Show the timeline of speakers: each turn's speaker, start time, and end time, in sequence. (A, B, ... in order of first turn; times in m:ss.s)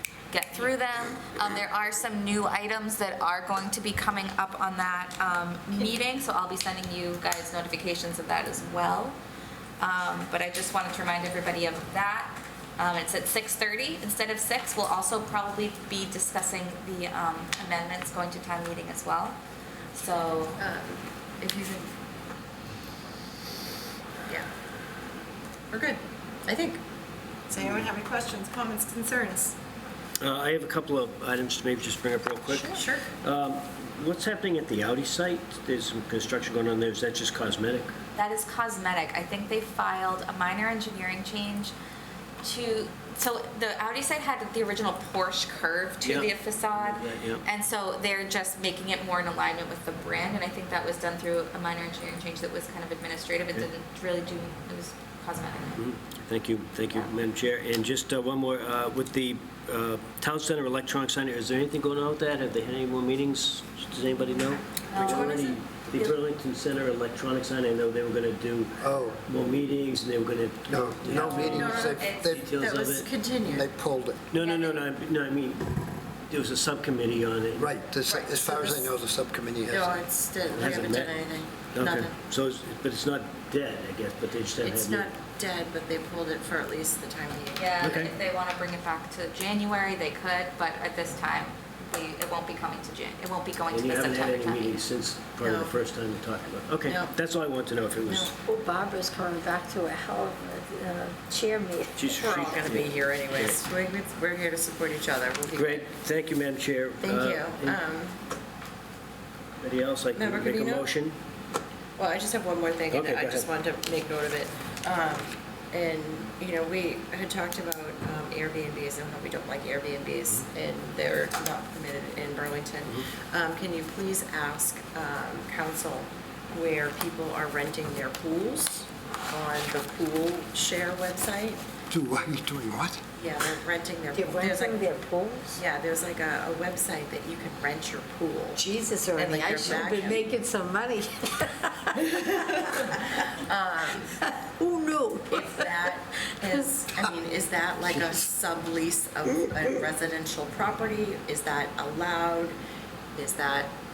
0:00.3-0:09.2 A
0:09.8-0:19.4 A
0:19.9-0:20.6 A
0:20.6-0:21.9 B
0:25.7-0:26.8 B
0:27.5-0:29.6 B
0:30.2-0:37.9 C
0:32.5-0:33.0 B
0:38.2-0:41.7 A
0:42.4-0:55.8 A
0:46.0-0:47.4 C
0:55.8-1:13.1 C
1:04.9-1:06.2 A
1:08.8-1:09.2 D
1:10.7-1:12.6 D
1:11.1-1:13.7 B
1:11.9-1:12.3 A
1:13.4-1:14.3 D
1:14.3-1:17.8 C
1:14.4-1:14.8 B
1:17.6-1:20.0 D
1:18.1-1:18.9 B
1:19.7-1:22.1 B
1:20.5-1:25.1 C
1:24.6-1:27.6 B
1:27.5-1:34.8 A
1:27.8-1:28.1 C
1:33.7-1:38.3 C
1:35.4-1:35.8 B
1:36.8-1:37.1 B
1:38.0-1:38.3 B
1:38.4-1:42.1 E
1:42.0-1:43.6 C
1:42.1-1:45.9 B
1:45.5-1:47.8 C
1:47.0-1:48.2 B
1:49.6-1:51.2 C
1:50.1-1:50.9 B
1:52.0-2:11.6 B
1:52.9-1:53.5 C
2:11.9-2:13.0 D
2:13.2-2:15.0 B
2:14.1-2:15.6 E
2:15.6-2:20.3 B
2:18.6-2:23.0 E
2:22.1-2:24.2 B
2:24.2-2:25.9 E
2:25.3-2:32.6 B
2:33.2-2:33.7 B